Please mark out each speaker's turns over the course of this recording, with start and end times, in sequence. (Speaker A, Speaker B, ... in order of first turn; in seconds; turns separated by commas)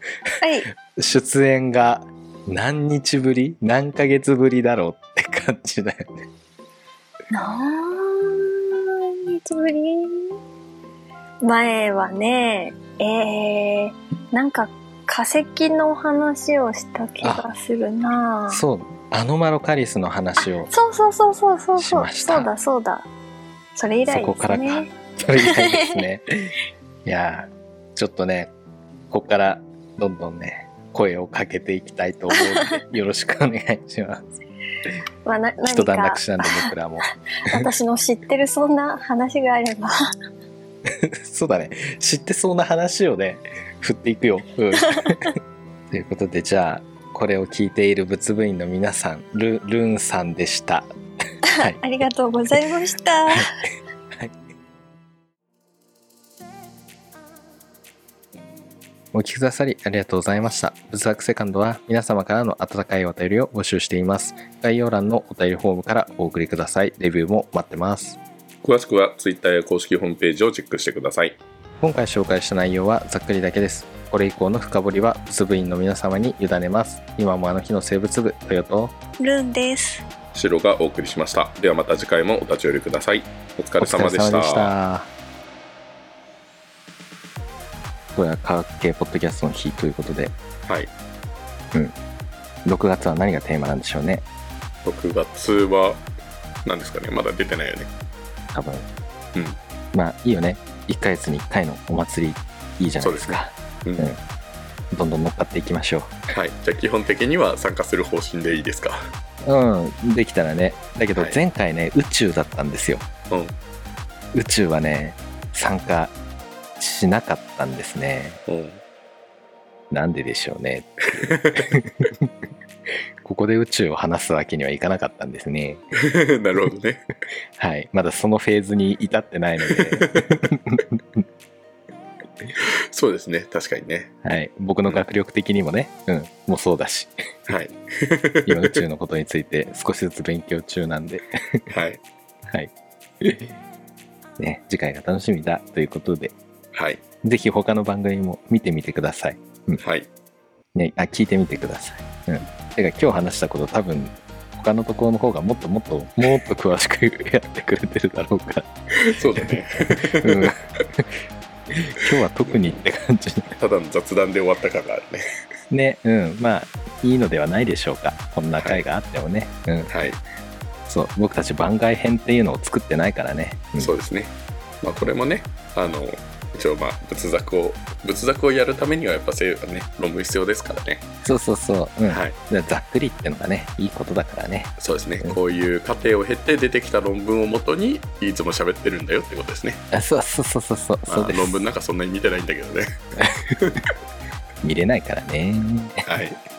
Speaker A: 0.4-0.7, Speaker B: 0.9-6.3, Speaker A: 7.3-10.4, Speaker A: 11.4-18.6, Speaker B: 18.5-20.7, Speaker A: 20.7-23.1, Speaker B: 21.8-22.5, Speaker A: 23.8-26.0, Speaker B: 24.1-28.5, Speaker B: 29.1-34.2, Speaker A: 32.4-32.8, Speaker A: 35.3-36.7, Speaker B: 35.6-37.7, Speaker A: 37.5-39.9, Speaker B: 41.0-45.4, Speaker A: 44.9-45.3, Speaker B: 45.9-50.9, Speaker B: 51.5-51.8, Speaker A: 51.7-53.5, Speaker B: 53.3-53.6, Speaker B: 59.1-68.2, Speaker C: 68.6-71.4, Speaker B: 71.8-78.9, Speaker A: 79.2-80.0, Speaker C: 80.3-84.7, Speaker B: 83.8-85.1, Speaker B: 88.2-90.3, Speaker B: 92.7-94.3, Speaker C: 94.8-96.0, Speaker C: 96.7-97.9, Speaker B: 98.5-98.9, Speaker B: 99.9-104.2, Speaker C: 103.0-104.1, Speaker B: 104.9-106.2, Speaker C: 106.3-109.0, Speaker B: 109.4-113.1, Speaker B: 114.3-116.2, Speaker B: 116.8-118.4, Speaker C: 118.5-118.8, Speaker B: 119.9-122.3, Speaker C: 121.2-121.6, Speaker B: 123.2-125.8, Speaker C: 126.0-127.0, Speaker B: 127.6-131.2, Speaker C: 129.7-130.3, Speaker C: 132.6-134.1, Speaker B: 134.2-137.5, Speaker C: 137.5-138.8, Speaker B: 138.4-141.7, Speaker C: 141.7-142.0, Speaker B: 142.5-143.5, Speaker B: 144.4-146.3, Speaker C: 146.7-147.0, Speaker B: 147.2-149.8, Speaker C: 149.8-150.1, Speaker B: 150.7-158.7, Speaker C: 159.0-160.5, Speaker B: 160.2-161.2, Speaker B: 161.7-163.6, Speaker C: 162.4-162.8, Speaker C: 163.6-165.2, Speaker B: 165.7-169.9, Speaker C: 168.6-168.8, Speaker C: 169.9-170.2, Speaker B: 170.9-173.9, Speaker C: 173.8-181.1, Speaker B: 181.2-185.4, Speaker C: 182.1-182.4, Speaker C: 184.8-189.8, Speaker B: 189.9-191.6, Speaker C: 191.1-192.9, Speaker B: 194.6-196.1, Speaker C: 196.1-196.4